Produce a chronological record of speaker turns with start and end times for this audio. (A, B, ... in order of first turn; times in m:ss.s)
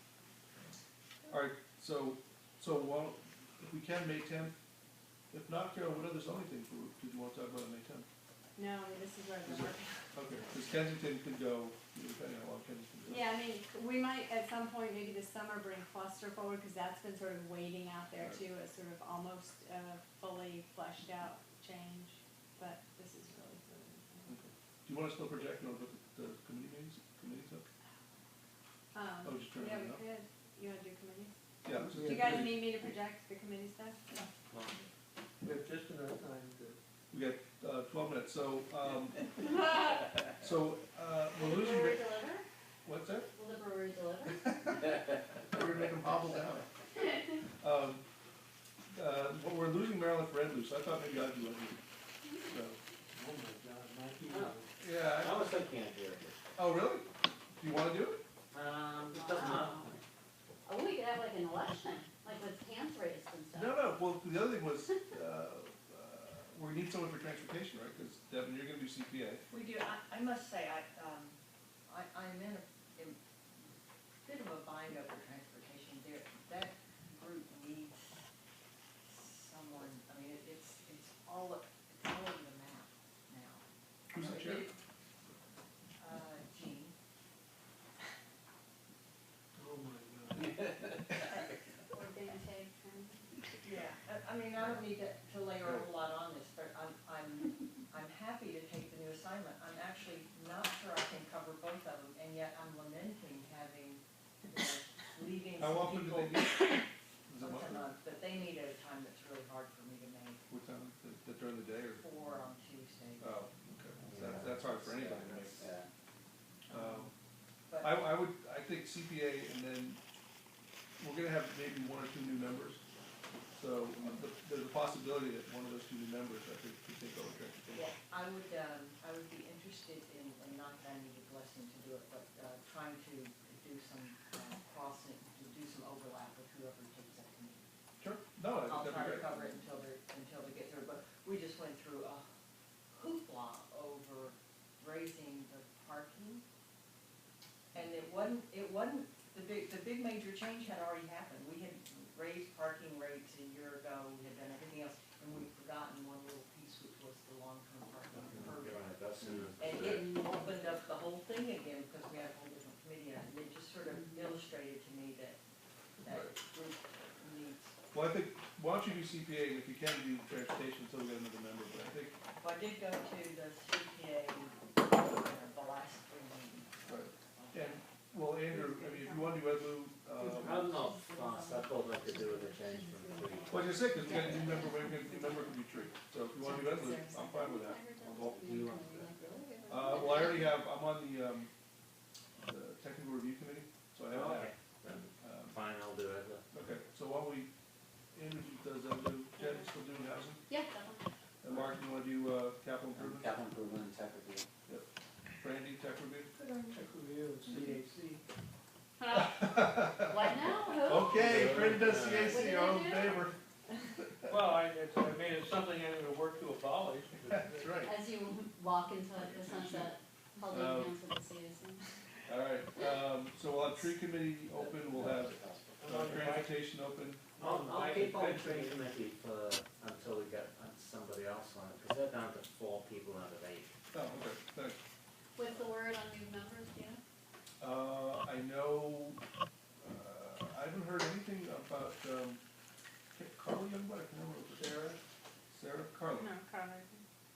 0:01.3-0:04.6 A
0:05.3-0:08.1 A
0:08.6-0:10.0 B
0:09.4-0:13.3 A
0:13.1-0:24.4 B
0:24.3-0:27.7 A
0:28.9-0:34.3 B
0:29.2-0:30.0 A
0:31.6-0:32.7 A
0:31.9-0:32.5 C
0:34.5-0:34.8 D
0:35.4-0:36.8 C
0:37.1-0:39.6 A
0:40.4-0:42.1 A
0:41.3-0:42.4 E
0:42.8-0:43.3 A
0:43.3-0:44.8 E
0:45.5-0:46.7 A
0:47.6-0:48.0 A
0:48.9-0:51.8 A
0:52.4-0:52.8 A
0:53.1-0:54.7 C
0:54.3-0:56.4 D
0:54.8-0:55.4 A
0:56.6-0:58.2 A
0:58.5-0:59.9 D
0:59.1-0:59.9 E
1:00.7-1:03.8 E
1:03.5-1:09.4 A
1:09.5-1:11.4 F
1:11.9-1:13.2 F
1:14.2-1:18.2 F
1:19.0-1:24.8 F
1:24.1-1:24.7 A
1:26.0-1:27.0 F
1:29.6-1:30.7 C
1:31.9-1:33.4 E
1:32.1-1:32.4 B
1:33.6-1:46.8 F
1:45.6-1:47.9 A
1:47.4-1:50.5 F
1:50.5-1:52.0 A
1:52.0-1:53.4 F
1:53.2-1:55.7 A
1:54.0-1:55.9 D
1:56.7-1:57.1 F
1:56.7-1:57.1 A
1:57.7-1:58.1 F
1:57.8-2:00.0 A
2:01.0-2:02.8 A
2:03.6-2:07.9 A
2:07.7-2:17.6 F
2:18.0-2:19.3 A
2:18.6-2:22.3 F
2:22.9-2:26.4 F
2:27.7-2:38.9 F
2:38.2-2:40.1 D
2:39.2-2:40.5 E
2:39.6-2:45.4 F
2:46.0-2:47.8 F
2:46.0-2:46.3 A
2:47.9-2:52.2 A
2:52.4-2:57.8 F
2:56.9-3:00.7 A
2:58.7-2:59.4 B
3:00.1-3:04.2 B
3:00.4-3:03.7 D
3:03.5-3:08.4 A
3:04.0-3:05.5 E
3:06.4-3:07.5 F
3:07.4-3:10.4 E
3:08.2-3:09.1 D
3:09.7-3:11.5 A
3:12.4-3:14.5 A
3:14.1-3:16.5 D
3:15.2-3:15.6 A
3:16.5-3:17.5 A
3:18.1-3:20.4 A
3:20.5-3:21.1 E
3:21.4-3:23.3 A
3:22.9-3:24.5 D
3:25.4-3:26.3 A
3:26.4-3:26.8 F
3:26.7-3:28.2 C
3:29.0-3:31.5 E
3:29.1-3:33.3 A
3:31.1-3:32.6 D
3:32.2-3:33.2 E
3:34.3-3:37.8 C
3:37.3-3:38.0 A
3:37.8-3:41.8 E
3:39.2-3:39.9 A
3:40.5-3:41.0 A
3:42.3-3:47.3 A
3:44.5-3:46.2 D
3:45.8-3:46.6 C
3:47.4-3:48.9 C
3:47.4-3:53.7 D
3:53.9-3:54.8 A
3:55.4-3:57.0 E
3:57.6-3:59.2 A
3:59.8-4:02.4 A
4:03.1-4:04.8 A
4:04.5-4:05.0 C
4:05.5-4:06.3 A
4:06.1-4:07.0 B